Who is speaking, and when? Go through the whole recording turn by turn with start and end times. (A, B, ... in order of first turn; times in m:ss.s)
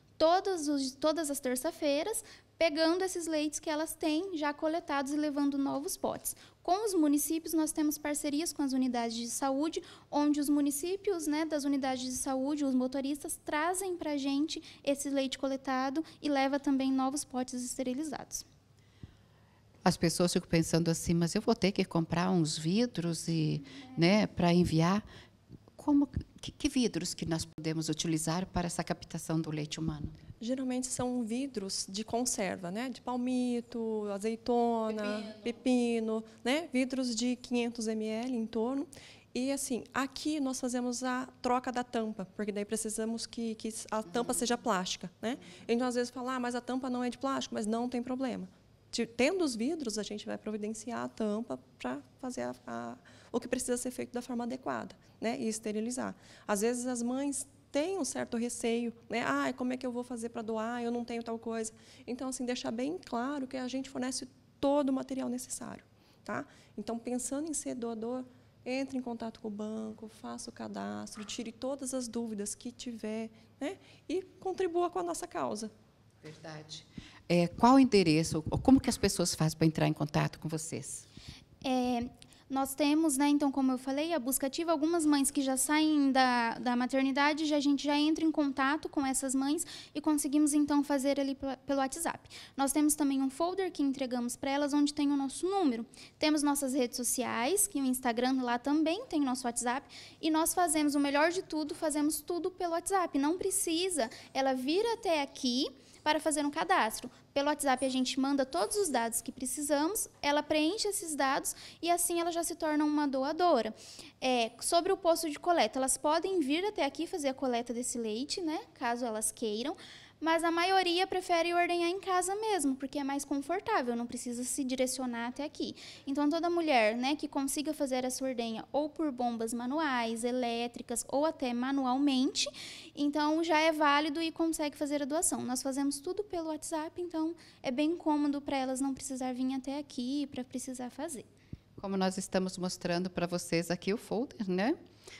0:00.2-0:18.4 A
0:19.8-0:25.0 B
0:25.7-0:30.2 B
0:30.4-1:15.7 C
0:34.9-0:35.6 B
0:44.1-0:44.5 B
1:16.2-1:21.0 B
1:21.6-2:21.3 A
2:21.8-2:24.8 B